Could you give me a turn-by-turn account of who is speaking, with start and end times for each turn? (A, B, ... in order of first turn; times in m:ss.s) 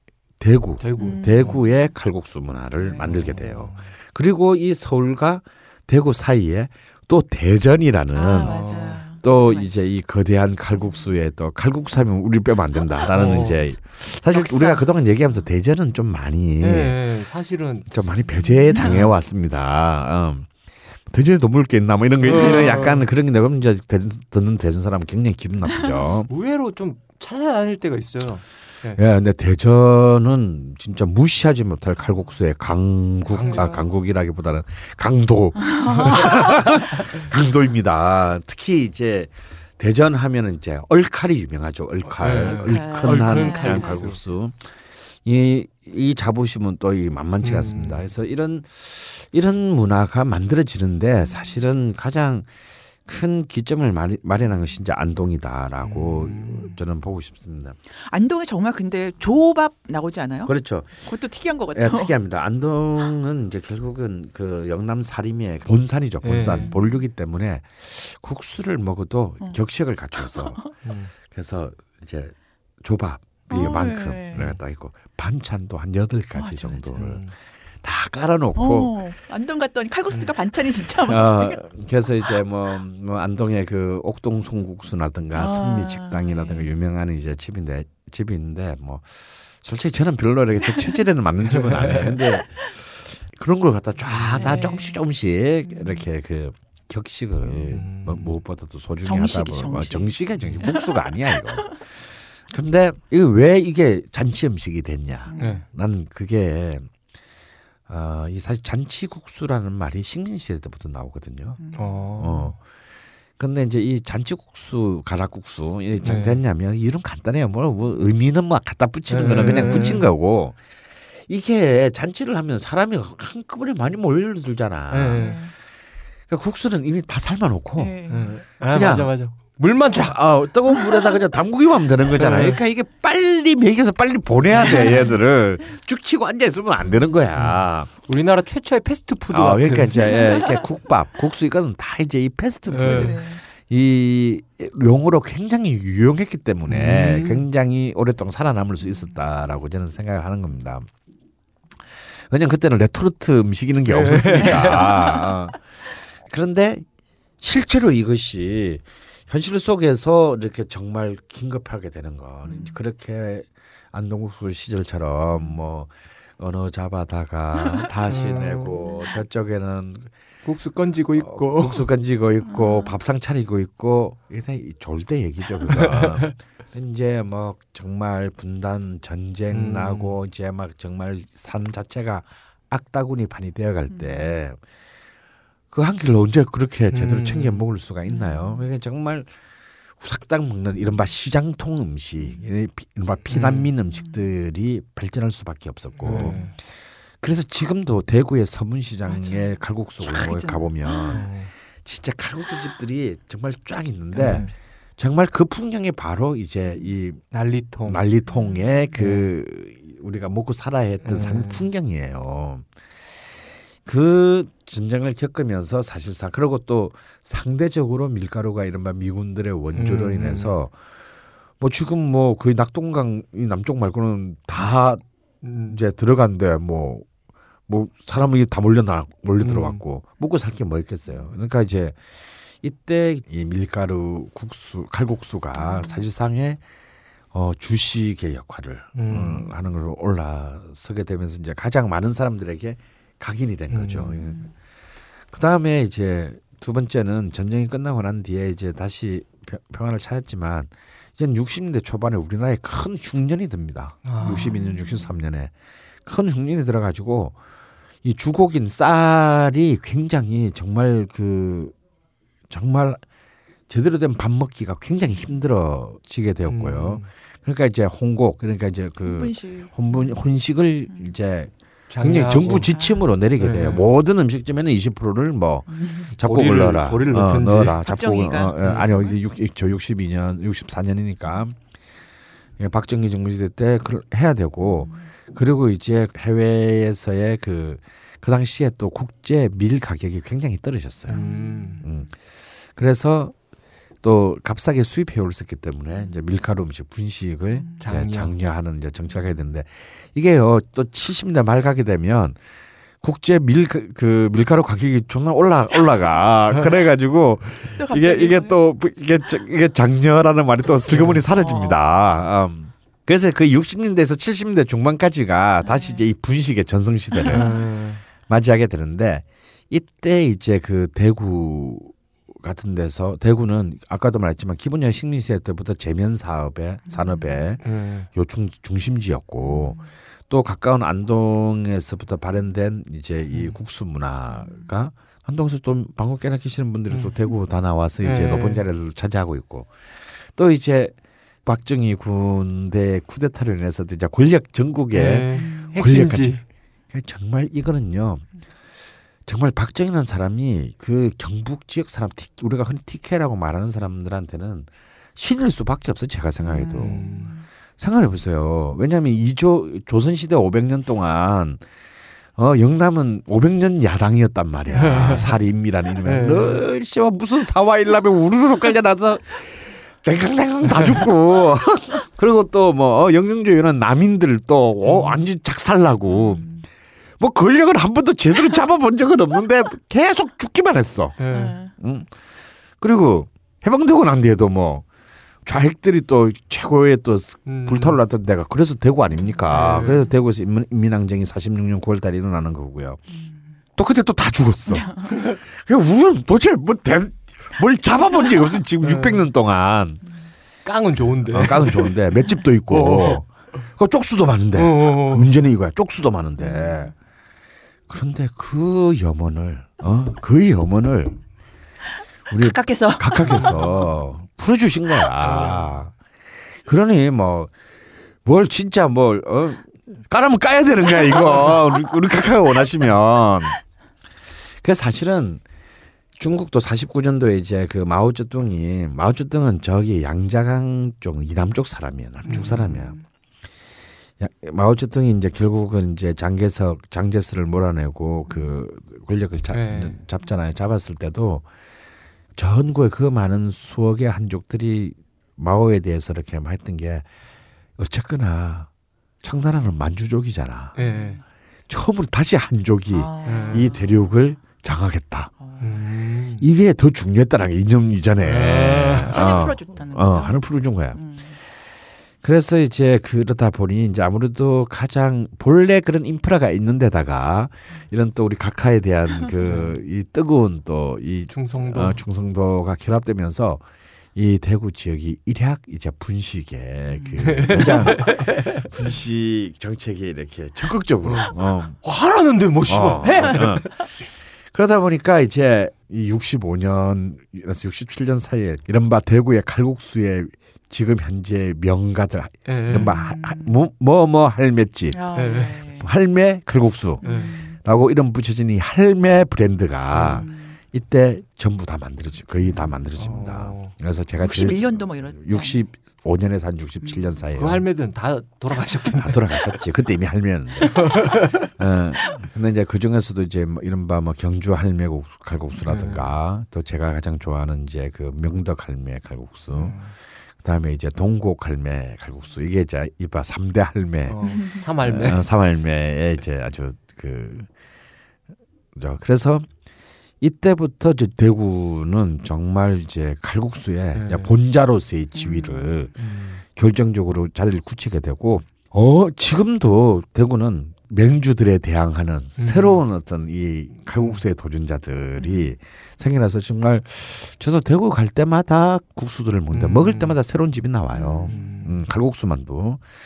0:00.4-0:17.0 A
0:00.8-0:01.6 B
0:01.0-0:01.9 C
0:02.8-0:03.1 C
0:03.0-0:03.9 B
0:08.1-0:09.9 C
0:08.4-0:09.0 B
0:13.1-0:13.6 B
0:14.3-0:15.1 C
0:16.6-0:17.9 B
0:17.9-0:20.6 A
0:18.4-0:19.0 C
0:18.8-0:19.1 B
0:21.1-0:26.3 A
0:22.2-0:23.0 B
0:26.3-0:29.0 B
0:29.0-0:44.7 A
0:33.3-0:33.8 B
0:33.4-0:33.7 C
0:35.6-0:36.4 C
0:35.9-0:36.2 B
0:42.1-0:44.2 B
0:42.4-0:44.1 C
0:45.2-0:52.5 A
0:47.4-0:48.1 B
0:53.1-0:57.8 A
0:55.8-0:56.7 B
0:58.1-1:02.1 C
1:00.5-1:01.0 A
1:01.7-1:10.7 A
1:06.2-1:06.7 B
1:06.5-1:07.0 C
1:10.2-1:10.7 C
1:10.8-1:11.1 B
1:11.3-1:17.3 A
1:13.5-1:14.5 C
1:16.4-1:17.1 C
1:17.0-1:17.3 B
1:17.8-1:19.0 A
1:18.6-1:21.6 C
1:21.0-1:42.0 A
1:25.3-1:26.5 C
1:31.4-1:32.2 B
1:34.1-1:34.6 B
1:34.4-1:35.0 C
1:35.7-1:36.0 C
1:37.5-1:38.4 B
1:39.0-1:41.0 C
1:40.4-1:40.7 B
1:42.5-1:46.9 A
1:45.3-1:45.6 C
1:45.4-1:45.6 B
1:47.9-1:51.6 A
1:51.6-1:52.0 C
1:51.8-1:52.5 B
1:52.2-1:52.6 A
1:53.4-2:00.6 A
1:56.0-1:56.4 B
1:59.1-2:00.1 B
1:59.4-2:00.0 C
2:01.3-2:05.4 A
2:04.9-2:05.4 B
2:05.2-2:05.5 C
2:06.3-2:08.0 A
2:07.8-2:08.4 C
2:08.1-2:10.2 B
2:08.7-2:09.1 A
2:09.9-2:17.9 A
2:12.2-2:12.6 B
2:14.5-2:15.1 B
2:14.6-2:15.2 C
2:17.4-2:20.2 B
2:19.3-2:30.9 A
2:20.0-2:20.6 C
2:22.7-2:23.1 B
2:22.8-2:23.4 C
2:26.7-2:27.5 B
2:32.2-2:35.6 A
2:33.9-2:35.2 B
2:36.3-2:36.9 A
2:37.4-2:50.1 A
2:42.5-2:42.7 C
2:48.1-2:48.8 B
2:50.4-2:51.9 B
2:51.2-3:04.6 A
2:52.5-2:52.9 C
2:55.7-2:56.3 B
2:59.5-3:00.2 B
3:03.9-3:04.3 C
3:05.7-3:09.3 A
3:06.9-3:07.7 B
3:08.1-3:08.7 C
3:10.0-3:16.5 A
3:13.3-3:13.7 B
3:16.0-3:16.5 B
3:16.2-3:16.5 C
3:17.2-3:21.3 A
3:19.1-3:19.5 C
3:20.0-3:21.3 C
3:21.1-3:21.5 B
3:21.8-3:27.2 A
3:24.1-3:24.5 B
3:24.2-3:24.5 C
3:27.3-3:28.0 B
3:27.8-3:32.7 A
3:28.3-3:28.7 C
3:29.0-3:29.3 B
3:31.0-3:31.7 B
3:33.8-3:40.8 A
3:39.7-3:40.6 B
3:41.6-3:45.0 A
3:45.4-3:45.8 B
3:45.6-3:47.1 A
3:47.7-3:52.0 A
3:49.4-3:49.8 B
3:52.6-3:56.6 A
3:55.6-3:56.0 C
3:57.3-4:04.4 A
3:59.0-3:59.5 B
4:03.7-4:04.2 B
4:05.3-4:15.5 A
4:14.1-4:14.6 B
4:14.2-4:15.1 C
4:16.0-4:17.4 A
4:18.0-4:21.8 A
4:22.5-4:23.0 A
4:23.7-4:41.6 A
4:26.5-4:27.1 B
4:29.0-4:30.2 C
4:31.9-4:32.7 B
4:32.5-4:33.1 C
4:33.4-4:33.9 B
4:35.7-4:36.1 C
4:36.2-4:37.8 B
4:37.8-4:39.1 C
4:38.6-4:38.9 B
4:42.6-4:51.2 A
4:44.6-4:45.0 C
4:51.1-4:51.8 B
4:51.1-4:52.0 C
4:51.8-4:52.1 A
4:52.8-4:53.4 A
4:54.0-5:02.4 A
4:57.6-4:57.8 C
4:57.8-4:58.3 B
5:03.0-5:17.4 A
5:07.8-5:08.6 C
5:10.9-5:11.2 B
5:11.3-5:11.8 C
5:15.6-5:16.0 C
5:17.2-5:17.6 C
5:17.3-5:18.0 B
5:18.3-5:48.2 A
5:26.9-5:27.4 C
5:27.6-5:28.1 B
5:29.4-5:29.9 C
5:34.4-5:34.6 C
5:38.0-5:38.6 B
5:44.9-5:46.4 B
5:45.4-5:45.8 C
5:49.3-5:57.0 A
5:56.4-5:57.4 C
5:56.8-5:57.3 B
5:57.8-6:01.6 A
6:02.4-6:16.5 A
6:04.8-6:05.1 C
6:04.8-6:05.3 B
6:06.0-6:06.6 B
6:10.7-6:11.0 B
6:14.8-6:15.2 B
6:16.1-6:16.6 C
6:17.2-6:21.2 A
6:21.2-6:21.6 B
6:21.3-6:21.7 C
6:21.7-6:22.1 A
6:22.8-6:24.9 A
6:25.4-6:33.0 A
6:27.5-6:28.0 B
6:29.2-6:30.0 C
6:29.5-6:30.0 B
6:33.8-6:40.0 A
6:34.8-6:35.1 C
6:35.1-6:35.4 B
6:38.8-6:39.2 B
6:40.6-6:41.9 B
6:41.3-6:46.9 A
6:42.7-6:43.2 B
6:44.6-6:45.3 B
6:46.4-6:46.9 C
6:47.9-6:51.2 A
6:52.3-6:55.9 A
6:52.3-6:53.9 C
6:53.2-6:53.6 B
6:55.2-6:55.7 B
6:56.6-6:57.5 A
6:58.2-7:03.6 A
7:04.6-7:05.4 A
7:06.2-7:13.0 A
7:12.2-7:12.8 B
7:12.2-7:13.0 C
7:14.2-7:21.5 A
7:19.5-7:20.0 B
7:22.4-7:27.1 A
7:27.8-7:28.7 A
7:29.2-7:30.8 A
7:30.8-7:31.2 B
7:30.8-7:31.2 C
7:31.7-7:35.3 A
7:32.9-7:34.0 C
7:33.2-7:33.7 B
7:35.4-7:35.8 C
7:35.6-7:36.5 B
7:36.4-7:41.0 A
7:38.2-7:39.4 B
7:39.1-7:40.4 C
7:40.9-7:41.4 C
7:42.2-8:01.8 A
7:49.4-7:49.8 B
7:51.3-7:52.0 B
7:56.9-7:57.8 C
7:57.2-7:58.6 B
8:01.0-8:03.7 B
8:02.7-8:03.8 A
8:04.5-8:15.0 A
8:12.5-8:12.9 B
8:12.7-8:13.6 C
8:14.9-8:15.9 C
8:15.2-8:15.6 B
8:15.8-8:17.0 A
8:17.0-8:17.6 C
8:17.0-8:17.4 B
8:17.5-8:27.6 A
8:19.9-8:20.2 B
8:20.0-8:20.6 C
8:22.4-8:22.7 C
8:23.0-8:23.7 B
8:24.2-8:25.6 C
8:26.8-8:27.2 C
8:27.4-8:29.2 B
8:29.0-8:39.8 A
8:30.6-8:31.5 B
8:35.6-8:36.1 B
8:39.5-8:40.0 B
8:40.4-8:47.5 A
8:44.1-8:45.3 B
8:44.3-8:44.6 C
8:48.8-8:49.5 A
8:50.2-8:55.9 A
8:53.9-8:54.3 B
8:55.2-8:55.9 C
8:56.0-8:56.4 B
8:56.5-9:12.8 A
9:02.4-9:02.8 B
9:04.0-9:04.2 B
9:05.2-9:05.5 C
9:09.5-9:10.2 B
9:10.9-9:11.5 C
9:11.3-9:11.8 B